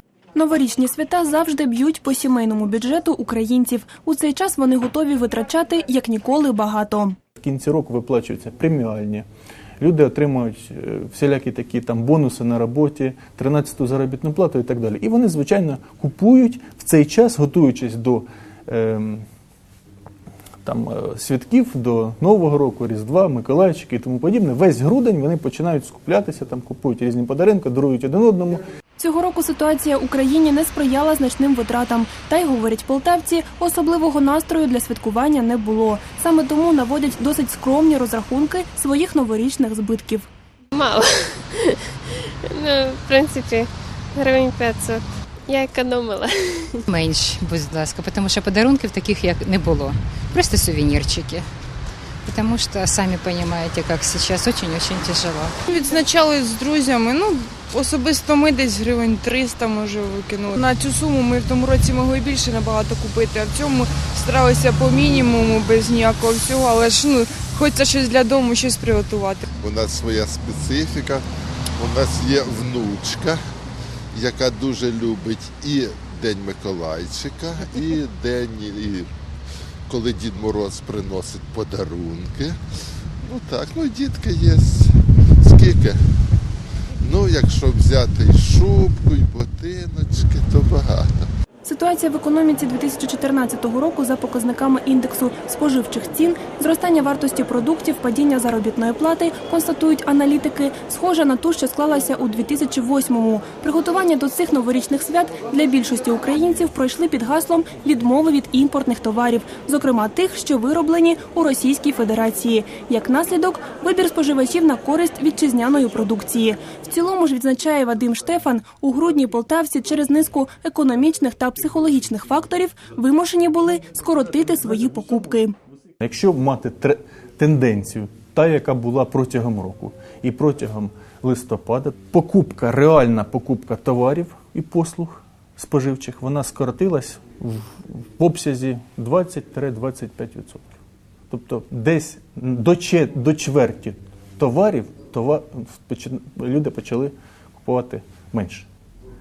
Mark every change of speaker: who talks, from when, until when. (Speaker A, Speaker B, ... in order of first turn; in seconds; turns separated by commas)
Speaker A: 0.3-7.2, Speaker B: 7.4-9.3, Speaker B: 9.8-19.3, Speaker B: 20.6-28.6, Speaker A: 29.0-40.3, Speaker C: 40.7-46.8, Speaker D: 46.9-51.5, Speaker D: 52.2-55.5, Speaker E: 55.7-69.4, Speaker F: 69.6-71.2, Speaker F: 71.8-73.4, Speaker F: 74.1-79.1, Speaker F: 79.9-82.6, Speaker F: 83.2-86.0, Speaker F: 87.0-91.3, Speaker A: 91.6-125.5, Speaker B: 126.0-140.8, Speaker B: 141.3-148.7